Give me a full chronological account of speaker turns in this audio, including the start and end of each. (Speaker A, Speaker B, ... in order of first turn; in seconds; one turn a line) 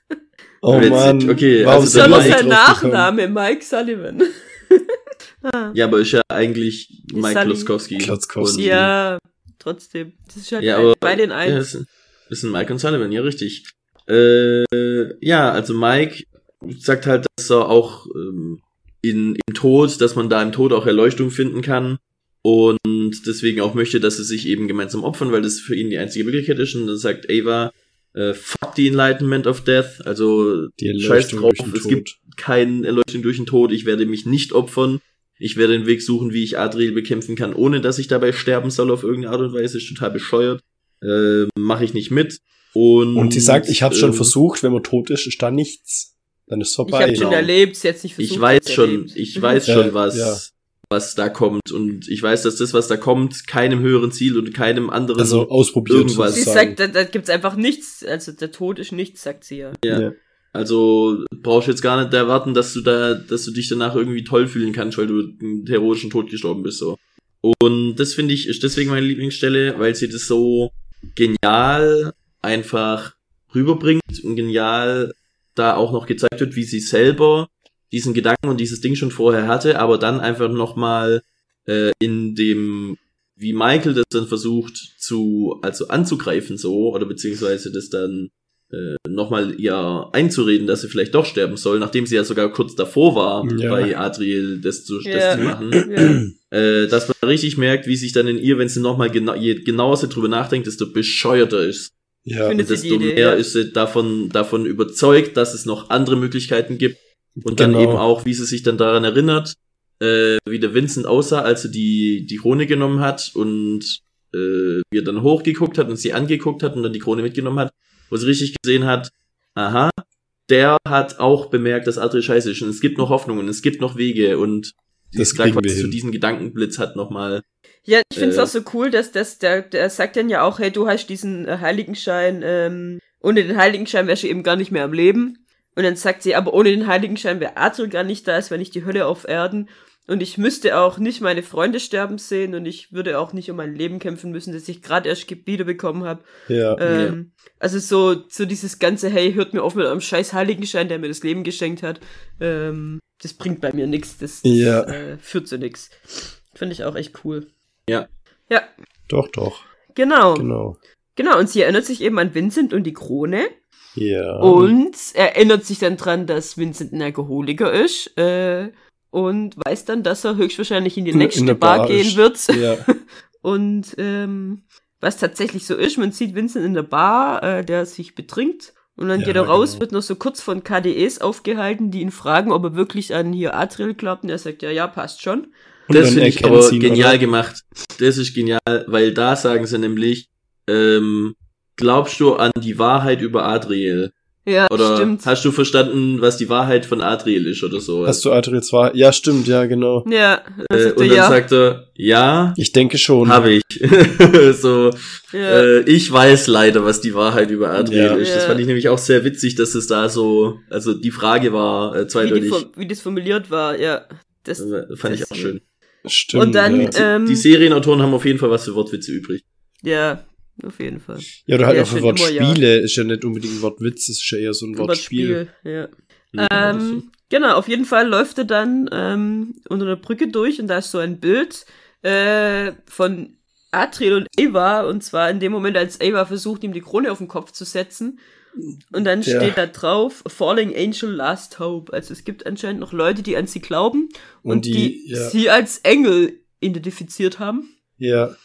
Speaker A: 0.6-3.1
Speaker B: 0.7-2.4
Speaker C: 0.7-5.8
Speaker B: 5.7-8.7
Speaker C: 7.1-7.7
Speaker A: 8.0-8.9
Speaker C: 8.5-11.7
Speaker B: 10.6-44.3
Speaker A: 30.8-32.1
Speaker A: 43.1-47.5
Speaker C: 46.9-49.8
Speaker B: 47.1-47.5
Speaker B: 48.2-56.4
Speaker A: 49.6-50.4
Speaker A: 55.2-56.8
Speaker C: 56.3-59.8
Speaker B: 59.8-101.9
Speaker A: 59.9-60.1
Speaker A: 93.4-93.9
Speaker C: 95.0-96.2
Speaker A: 102.2-102.6
Speaker C: 102.4-103.4
Speaker B: 102.6-119.9
Speaker A: 107.4-108.0
Speaker B: 120.5-127.4
Speaker A: 125.2-126.0
Speaker C: 127.9-157.4
Speaker B: 128.2-128.5
Speaker A: 146.5-146.8
Speaker B: 146.9-147.2
Speaker A: 154.4-155.0
Speaker A: 159.1-159.7
Speaker C: 159.9-160.5
Speaker A: 160.3-160.8
Speaker C: 161.2-163.5
Speaker A: 163.9-164.7
Speaker C: 164.4-185.5
Speaker A: 171.1-172.9
Speaker A: 179.2-179.8
Speaker A: 185.9-187.2
Speaker B: 185.9-194.1
Speaker C: 194.4-195.3
Speaker B: 194.7-198.2
Speaker A: 198.1-200.1
Speaker C: 200.0-201.4
Speaker B: 200.7-202.6
Speaker A: 202.6-203.4
Speaker B: 203.2-212.6
Speaker C: 205.3-205.7
Speaker A: 207.8-208.2
Speaker C: 208.1-208.6
Speaker C: 212.2-215.6
Speaker B: 214.6-215.6
Speaker A: 216.0-217.0
Speaker C: 216.3-217.5
Speaker B: 216.7-219.4
Speaker C: 219.8-222.6
Speaker A: 221.5-225.4
Speaker C: 224.8-238.2
Speaker B: 226.3-227.0
Speaker C: 238.9-247.7
Speaker A: 239.2-239.6
Speaker A: 244.4-245.3
Speaker A: 248.0-248.3